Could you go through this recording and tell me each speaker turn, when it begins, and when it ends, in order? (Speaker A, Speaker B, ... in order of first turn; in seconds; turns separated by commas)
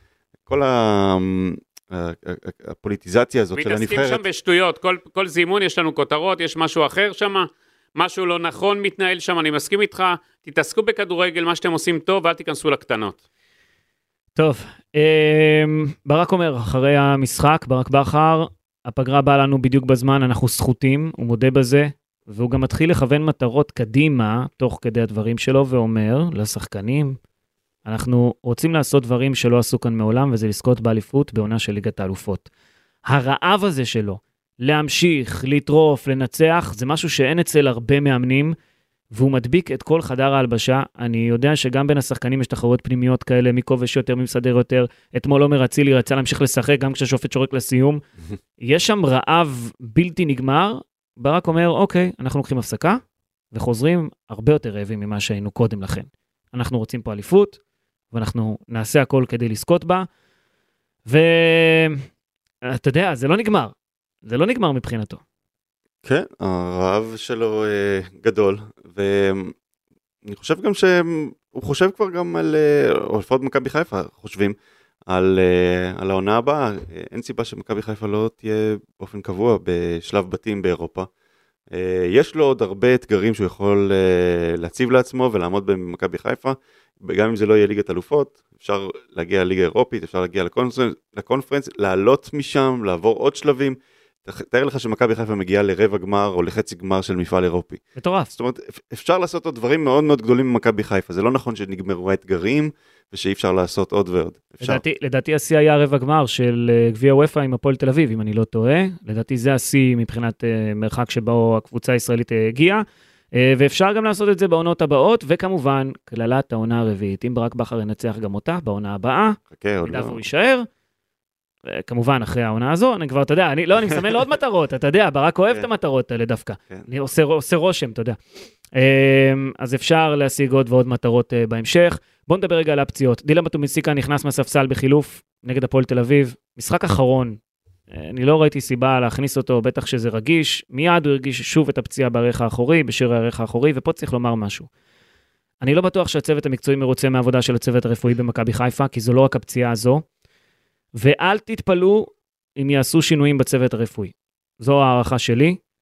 Speaker A: 0.5-4.2, Speaker B: 3.5-13.2, Speaker C: 14.3-27.2, Speaker C: 27.8-32.5, Speaker C: 33.1-38.5, Speaker C: 39.1-48.0, Speaker C: 48.6-53.0, Speaker C: 53.5-57.6, Speaker C: 58.1-60.1, Speaker C: 61.1-62.0, Speaker C: 62.6-65.2, Speaker A: 66.0-69.5, Speaker A: 70.2-74.5, Speaker A: 75.1-81.1, Speaker A: 81.7-104.8, Speaker C: 98.0-98.3, Speaker C: 104.6-120.7, Speaker A: 119.5-120.2, Speaker C: 121.7-128.2, Speaker C: 128.7-137.4, Speaker C: 137.9-144.7, Speaker C: 145.6-150.0, Speaker C: 151.0-155.6